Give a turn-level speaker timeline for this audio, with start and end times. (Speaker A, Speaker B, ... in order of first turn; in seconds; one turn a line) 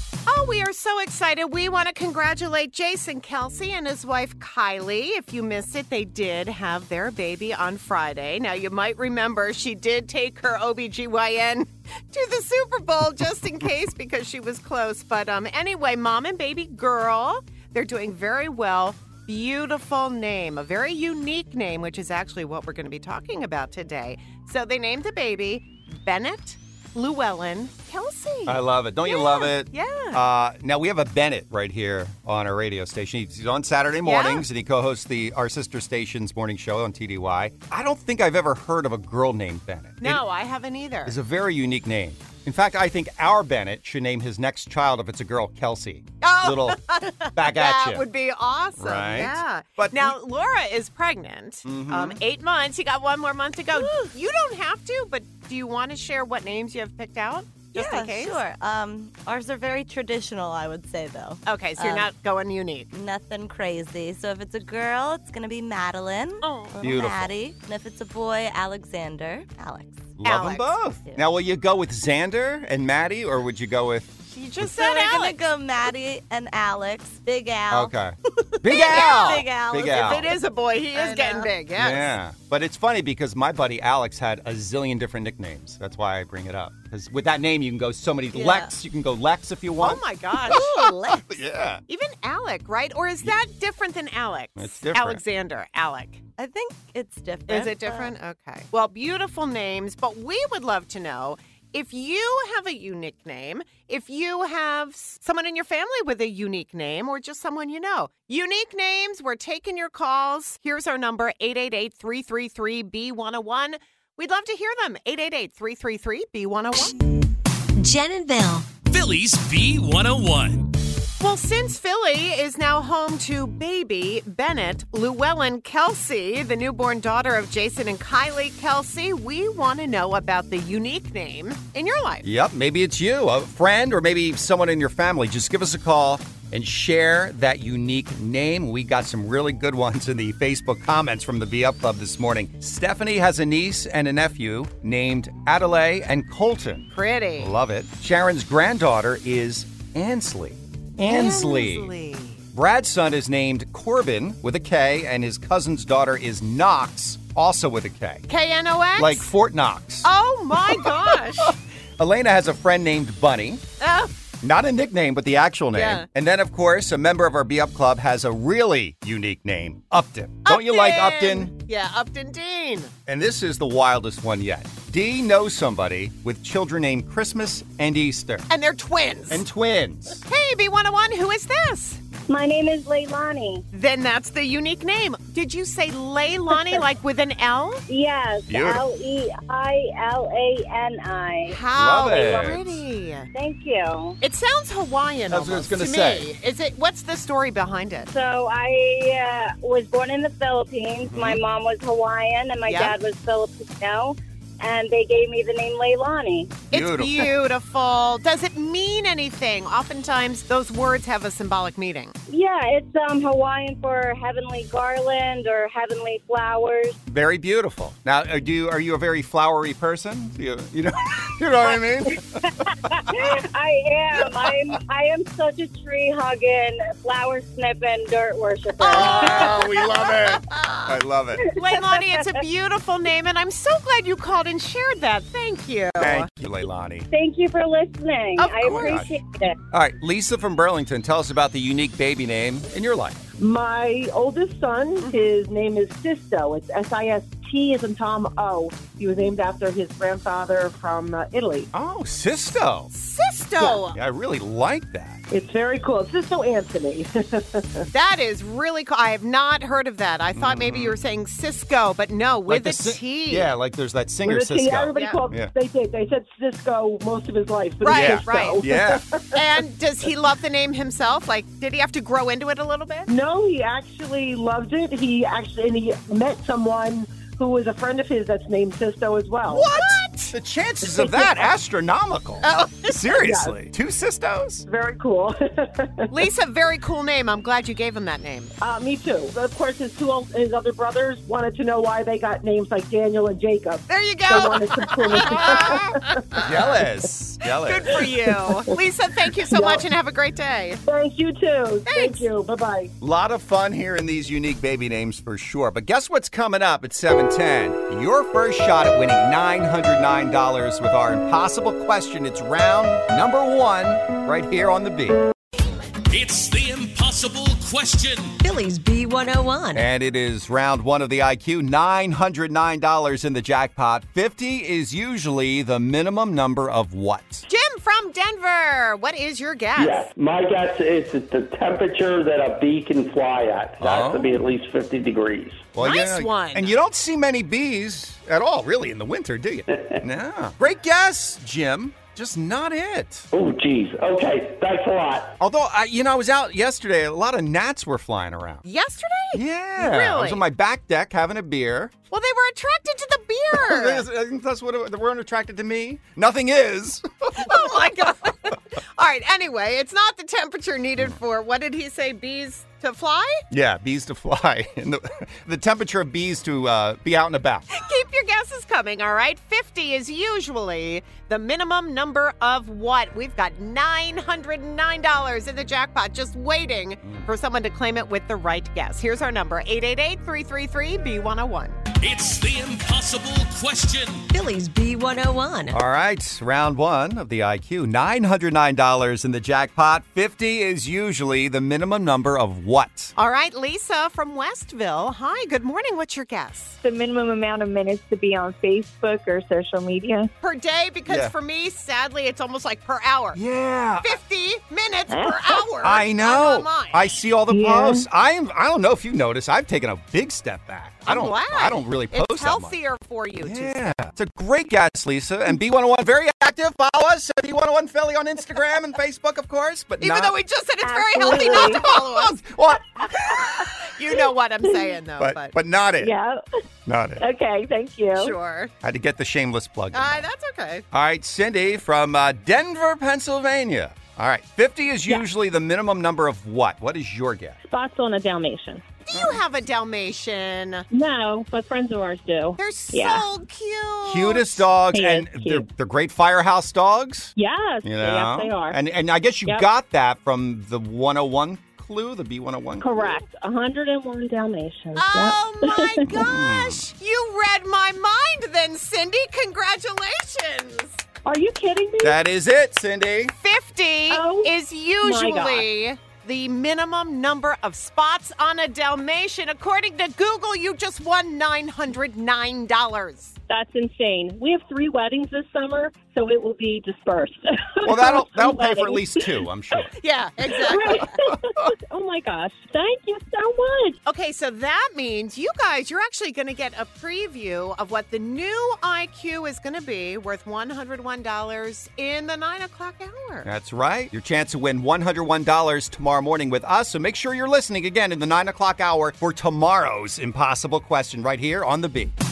Speaker A: 0.3-30.2
Speaker B: 28.5-40.2
Speaker A: 34.0-34.5
Speaker A: 40.0-41.2
Speaker B: 41.0-48.0
Speaker A: 46.2-58.4
Speaker B: 48.8-50.2
Speaker B: 51.7-52.2
Speaker C: 53.7-54.0
Speaker C: 57.7-62.1
Speaker A: 61.5-62.9
Speaker C: 62.9-70.2
Speaker A: 66.4-66.8
Speaker B: 66.8-67.3
Speaker B: 70.2-74.1
Speaker A: 70.2-70.7
Speaker C: 71.0-71.2
Speaker A: 74.3-75.4
Speaker C: 74.6-77.9
Speaker B: 77.7-80.3
Speaker C: 78.6-80.3
Speaker A: 78.7-82.1
Speaker C: 81.0-81.5
Speaker B: 81.7-91.8
Speaker A: 88.3-88.7
Speaker A: 89.8-91.4
Speaker A: 91.9-96.3
Speaker B: 94.6-95.2
Speaker C: 96.4-98.1
Speaker A: 97.5-117.0
Speaker D: 117.8-118.7
Speaker E: 118.9-120.7
Speaker A: 121.2-132.2
Speaker B: 132.2-151.9
Speaker A: 146.9-147.5
Speaker A: 151.1-152.4
Speaker B: 152.5-158.3
Speaker A: 158.3-159.3
Speaker B: 159.0-160.1
Speaker A: 160.0-161.6
Speaker B: 160.6-163.6
Speaker A: 163.8-164.1
Speaker B: 164.4-171.5
Speaker A: 165.7-166.1
Speaker A: 170.5-172.9
Speaker B: 173.1-178.5
Speaker A: 178.5-179.4
Speaker B: 179.3-180.2
Speaker A: 180.3-182.0
Speaker F: 182.3-183.7
Speaker A: 183.7-187.8
Speaker F: 187.9-191.6
Speaker B: 188.5-188.8
Speaker A: 191.5-193.3
Speaker B: 191.7-192.8
Speaker F: 192.2-192.5
Speaker F: 193.3-194.2
Speaker A: 194.2-198.1
Speaker B: 195.3-196.3
Speaker F: 198.1-206.6
Speaker B: 201.1-201.4
Speaker A: 202.7-202.9
Speaker B: 206.7-207.3
Speaker A: 206.7-212.2
Speaker F: 212.3-217.0
Speaker B: 217.1-223.3
Speaker F: 222.9-229.9
Speaker A: 228.8-231.0
Speaker B: 228.8-231.5
Speaker F: 231.4-232.4
Speaker A: 231.5-236.3
Speaker B: 236.0-237.1
Speaker F: 237.1-239.6
Speaker A: 238.4-238.8
Speaker B: 238.4-239.2
Speaker B: 239.7-243.2
Speaker G: 243.4-251.7
Speaker A: 245.0-245.3
Speaker B: 251.7-252.9
Speaker A: 252.9-254.0
Speaker B: 253.7-255.2
Speaker G: 255.3-257.9
Speaker A: 257.9-263.5
Speaker B: 260.3-261.0
Speaker B: 262.5-265.5
Speaker G: 264.2-269.4
Speaker A: 264.9-265.2
Speaker A: 267.8-268.6
Speaker B: 267.9-269.0
Speaker A: 269.3-273.1
Speaker G: 273.1-279.7
Speaker B: 279.5-284.6
Speaker G: 280.9-281.4
Speaker A: 282.4-283.1
Speaker G: 283.2-283.6
Speaker G: 284.7-286.2
Speaker A: 286.1-288.5
Speaker G: 288.6-296.7
Speaker A: 293.9-296.6
Speaker B: 295.2-297.9
Speaker A: 297.6-300.8
Speaker G: 298.2-298.8
Speaker G: 299.4-299.8
Speaker G: 300.9-302.9
Speaker A: 301.9-302.3
Speaker B: 303.0-315.3
Speaker E: 316.1-318.3
Speaker D: 318.4-319.9
Speaker B: 319.7-327.5
Speaker A: 327.5-330.1
Speaker H: 329.8-335.8
Speaker B: 333.8-334.4
Speaker B: 335.7-343.3
Speaker A: 335.8-336.7
Speaker H: 339.7-340.0
Speaker H: 343.3-345.4
Speaker B: 345.4-348.6
Speaker A: 348.6-350.4
Speaker B: 349.3-351.9
Speaker A: 352.1-354.0
Speaker B: 353.6-357.6
Speaker A: 357.4-363.4
Speaker B: 363.5-367.7
Speaker A: 367.7-381.8
Speaker B: 377.0-377.3
Speaker E: 382.0-384.2
Speaker D: 384.3-385.8
Speaker B: 385.7-393.1
Speaker A: 393.2-396.8
Speaker I: 396.8-400.3
Speaker A: 400.4-403.4
Speaker B: 401.1-401.3
Speaker B: 403.3-404.2
Speaker A: 404.0-407.1
Speaker B: 405.8-412.8
Speaker A: 411.1-413.9
Speaker B: 413.4-420.4
Speaker A: 420.0-422.3
Speaker I: 420.9-421.9
Speaker B: 421.3-423.8
Speaker A: 423.9-425.5
Speaker B: 425.2-426.1
Speaker B: 426.9-427.3
Speaker A: 428.1-428.7
Speaker B: 428.8-430.2
Speaker A: 429.9-430.9
Speaker B: 430.9-437.6
Speaker J: 437.6-438.9
Speaker A: 439.1-440.9
Speaker B: 439.1-439.4
Speaker J: 440.9-443.3
Speaker A: 442.6-444.6
Speaker B: 444.1-453.2
Speaker J: 444.9-445.7
Speaker J: 447.4-448.8
Speaker J: 452.8-456.1
Speaker A: 455.0-461.0
Speaker B: 456.1-456.8
Speaker J: 461.2-462.2
Speaker B: 462.0-463.3
Speaker A: 463.4-473.4
Speaker J: 464.1-465.7
Speaker J: 473.5-479.4
Speaker B: 477.8-479.9
Speaker A: 480.0-481.1
Speaker J: 480.6-484.0
Speaker B: 480.8-481.7
Speaker A: 484.1-493.5
Speaker B: 493.4-502.1